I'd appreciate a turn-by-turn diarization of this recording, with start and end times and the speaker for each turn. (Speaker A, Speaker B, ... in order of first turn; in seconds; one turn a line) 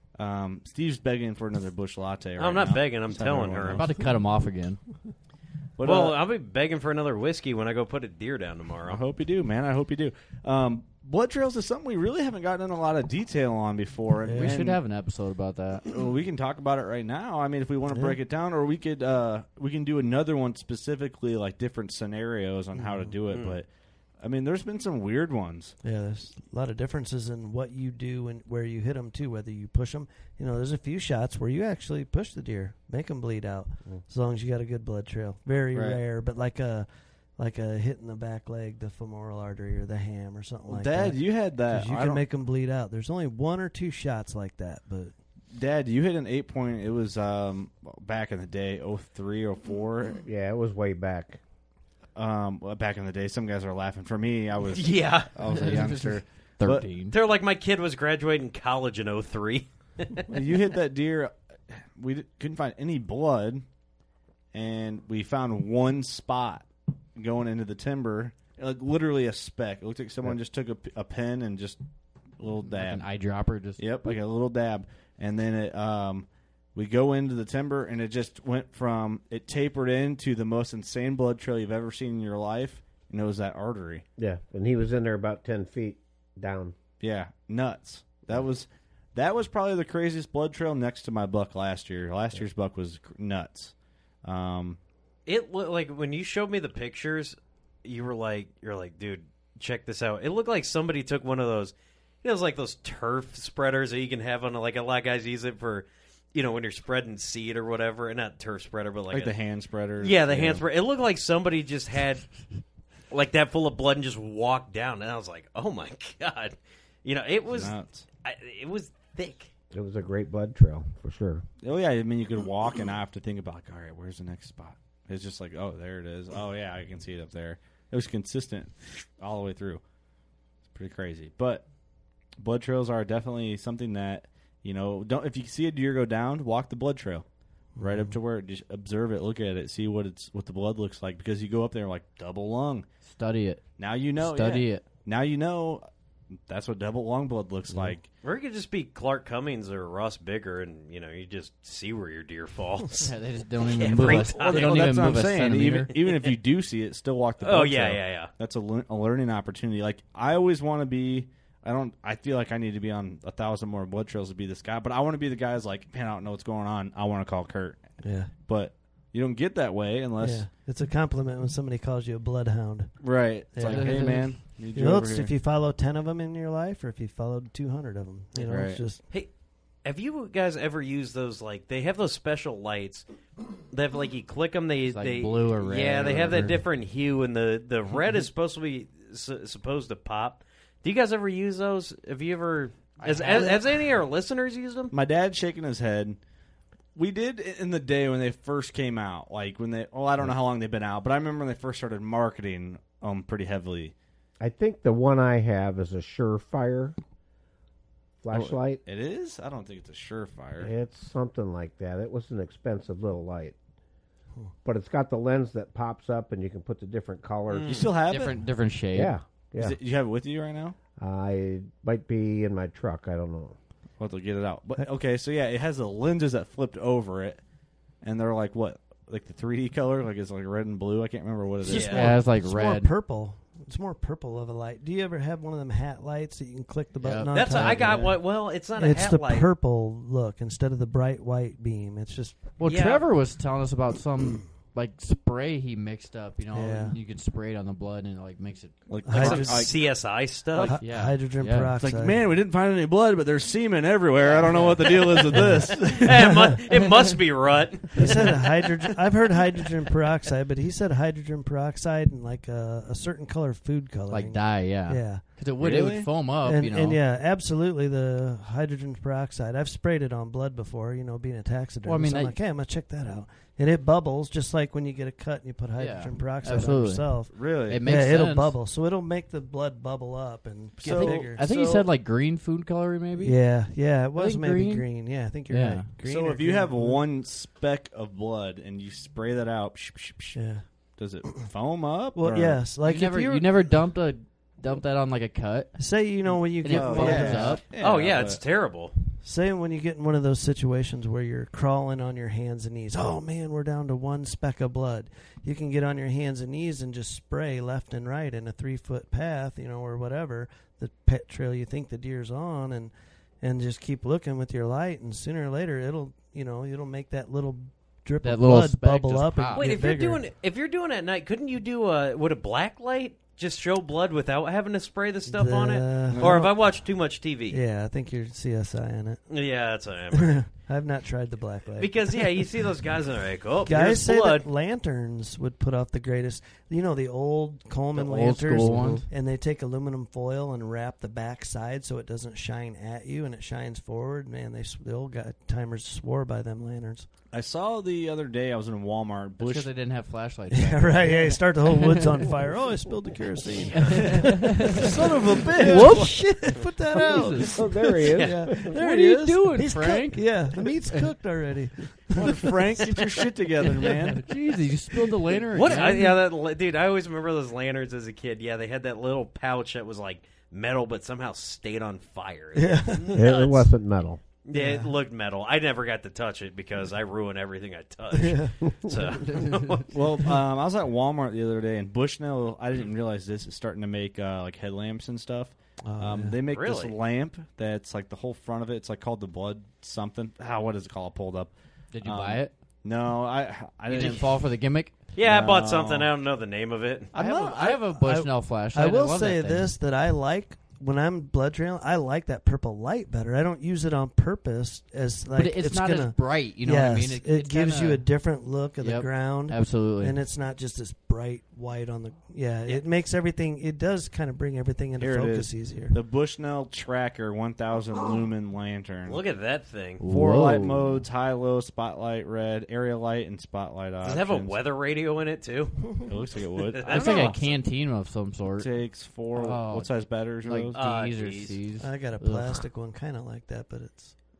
Speaker A: 0.2-3.9
Speaker B: 2.4-3.9
Speaker C: 3.8-4.8
Speaker A: 5.8-6.2
Speaker B: 5.8-9.0
Speaker A: 8.9-14.8
Speaker D: 14.3-14.6
Speaker C: 14.3-15.8
Speaker A: 15.9-23.7
Speaker D: 17.9-18.2
Speaker D: 22.8-23.1
Speaker B: 23.3-23.6
Speaker A: 24.2-25.8
Speaker D: 25.8-45.1
Speaker A: 35.7-36.0
Speaker A: 40.7-42.2
Speaker A: 45.5-50.2
Speaker E: 50.3-51.4
Speaker A: 52.1-56.9
Speaker B: 54.7-55.3
Speaker C: 55.5-57.1
Speaker B: 57.1-60.3
Speaker A: 60.3-63.6
Speaker A: 64.5-71.8
Speaker A: 72.4-73.0
Speaker C: 72.7-74.1
Speaker A: 73.8-84.0
Speaker E: 84.2-86.8
Speaker A: 87.0-94.8
Speaker B: 95.3-109.3
Speaker A: 109.1-110.7
Speaker B: 110.0-112.3
Speaker B: 113.1-119.5
Speaker A: 117.5-118.1
Speaker E: 119.7-121.5
Speaker A: 121.6-129.8
Speaker A: 130.7-131.7
Speaker A: 132.4-137.2
Speaker D: 137.8-138.2
Speaker A: 137.8-142.9
Speaker C: 143.1-143.7
Speaker A: 143.8-148.1
Speaker C: 144.2-144.8
Speaker B: 148.2-153.1
Speaker C: 153.0-155.9
Speaker B: 153.8-154.8
Speaker A: 154.1-167.8
Speaker B: 156.0-156.3
Speaker B: 157.4-158.3
Speaker D: 168.0-168.3
Speaker A: 168.4-170.5
Speaker D: 170.2-173.0
Speaker A: 173.0-175.3
Speaker D: 173.5-179.0
Speaker C: 173.7-174.3
Speaker A: 178.4-178.8
Speaker B: 179.8-183.1
Speaker B: 183.7-194.9
Speaker C: 184.9-186.6
Speaker A: 186.0-186.5
Speaker A: 193.0-193.7
Speaker C: 193.1-193.5
Speaker A: 194.9-196.2
Speaker A: 196.9-203.9
Speaker E: 204.4-207.0
Speaker E: 208.2-208.8
Speaker A: 208.3-210.7
Speaker E: 210.6-213.6
Speaker E: 214.6-217.8
Speaker B: 217.5-217.9
Speaker A: 217.7-218.5
Speaker C: 218.1-219.2
Speaker E: 218.9-219.8
Speaker A: 219.6-220.8
Speaker E: 221.0-223.6
Speaker A: 224.0-227.4
Speaker A: 228.0-232.2
Speaker D: 231.7-238.2
Speaker B: 231.7-232.1
Speaker C: 231.9-232.9
Speaker C: 237.0-237.9
Speaker B: 237.3-239.5
Speaker D: 238.8-242.4
Speaker C: 242.6-248.7
Speaker B: 242.6-243.0
Speaker D: 246.5-247.0
Speaker A: 248.9-249.8
Speaker D: 249.1-249.9
Speaker B: 249.2-250.8
Speaker D: 250.6-252.2
Speaker C: 250.8-251.7
Speaker A: 251.8-256.3
Speaker C: 254.3-254.9
Speaker D: 255.4-256.6
Speaker B: 255.9-258.6
Speaker D: 257.9-265.2
Speaker C: 264.1-267.0
Speaker A: 265.6-266.1
Speaker D: 266.4-281.4
Speaker C: 271.9-272.4
Speaker C: 275.8-277.1
Speaker A: 277.3-277.8
Speaker C: 277.7-278.6
Speaker C: 280.8-283.4
Speaker A: 280.8-281.9
Speaker D: 283.2-287.0
Speaker C: 284.1-284.9
Speaker C: 285.5-285.9
Speaker A: 286.0-290.4
Speaker D: 290.4-290.6
Speaker A: 291.0-292.6
Speaker D: 292.1-293.7
Speaker C: 292.8-295.9
Speaker D: 295.8-297.6
Speaker C: 296.6-297.6
Speaker A: 296.7-298.4
Speaker B: 297.8-298.9
Speaker D: 299.2-320.2
Speaker C: 318.2-319.7
Speaker B: 319.6-327.6
Speaker D: 325.3-326.5
Speaker A: 326.1-326.5
Speaker D: 327.5-329.2
Speaker B: 329.3-330.4
Speaker D: 330.1-332.3
Speaker B: 331.8-334.5
Speaker D: 333.7-347.1
Speaker C: 337.9-339.1
Speaker E: 338.7-339.0
Speaker A: 347.3-349.7
Speaker C: 349.4-352.2
Speaker D: 350.5-363.1
Speaker C: 353.7-354.8
Speaker A: 353.9-356.2
Speaker C: 355.6-357.6
Speaker E: 356.9-358.9
Speaker B: 358.1-358.5
Speaker C: 358.6-361.1
Speaker A: 362.1-364.3
Speaker C: 363.8-366.1
Speaker D: 365.0-366.2
Speaker B: 365.5-373.7
Speaker D: 372.6-373.2
Speaker E: 373.1-374.2
Speaker B: 374.4-379.9
Speaker D: 374.5-374.9
Speaker D: 378.1-378.6
Speaker A: 379.9-394.4
Speaker D: 385.8-386.4
Speaker B: 386.5-386.9
Speaker C: 391.9-392.5
Speaker C: 393.9-394.9
Speaker B: 395.1-397.1
Speaker A: 395.2-396.1
Speaker A: 397.1-397.8
Speaker C: 397.1-399.8
Speaker D: 397.7-416.0
Speaker C: 405.4-408.1
Speaker C: 408.8-410.2
Speaker A: 415.0-419.2
Speaker B: 419.1-420.0
Speaker C: 420.0-421.0
Speaker A: 420.1-424.6
Speaker B: 424.0-426.1
Speaker A: 426.1-427.4
Speaker B: 426.8-427.6
Speaker C: 426.9-428.8
Speaker A: 428.6-430.8
Speaker C: 429.3-432.6
Speaker B: 430.8-431.6
Speaker D: 431.8-434.1